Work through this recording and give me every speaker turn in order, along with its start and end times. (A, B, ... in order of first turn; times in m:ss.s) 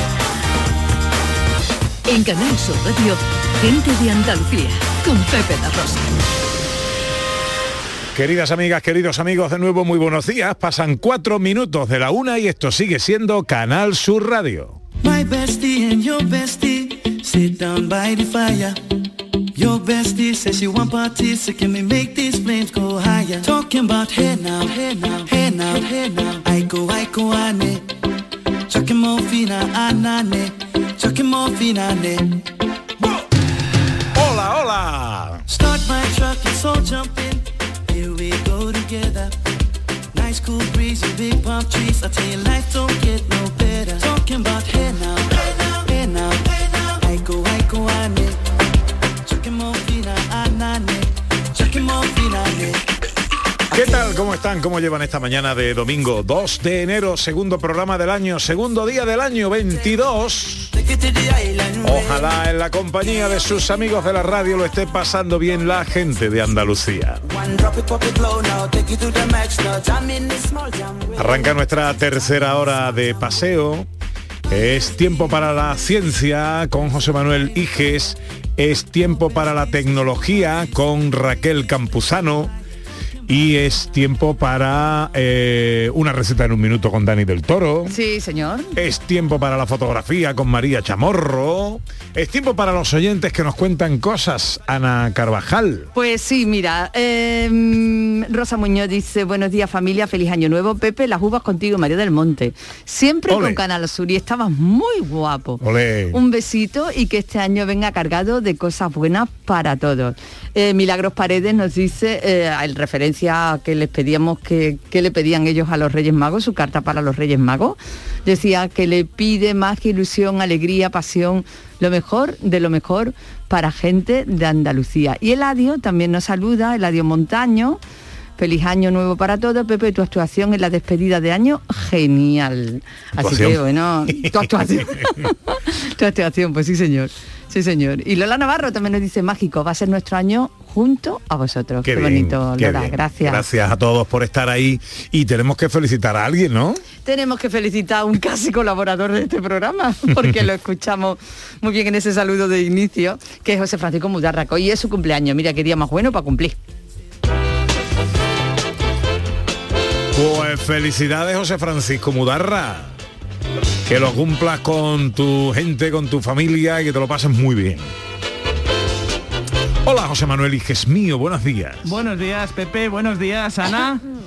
0:02.0-0:06.2 A
0:08.1-0:14.8 B
0:15.0-0:18.8 C
0:19.5-0:27.9 C
0:28.7-0:32.4 C
0:34.1-0:35.4 B
0:35.5-0:39.3 C
0:40.1-0:48.4 C
0:49.2-0:52.8 C
0:53.7-1:00.7 B
0:53.7-0:54.0 C
1:00.7-1:02.3 C
1:01.8-1:07.2 B
1:07.3-1:11.5 C
1:11.2-1:13.8 B
1:14.5-1:22.5 B
1:23.3-1:28.0 B
1:27.9-1:28.7 D
1:28.7-1:35.9 B
1:35.9-1:45.6 D
1:43.3-1:43.6 B
1:45.6-1:46.2 B
1:46.1-2:07.8 D
2:08.4-2:23.4 D
2:13.2-2:15.1 B
2:21.8-2:26.8 B
2:27.0-2:36.6 D
2:40.1-2:42.9 B
2:43.8-2:47.9 B
2:49.8-2:51.9 B
2:51.8-2:54.0 E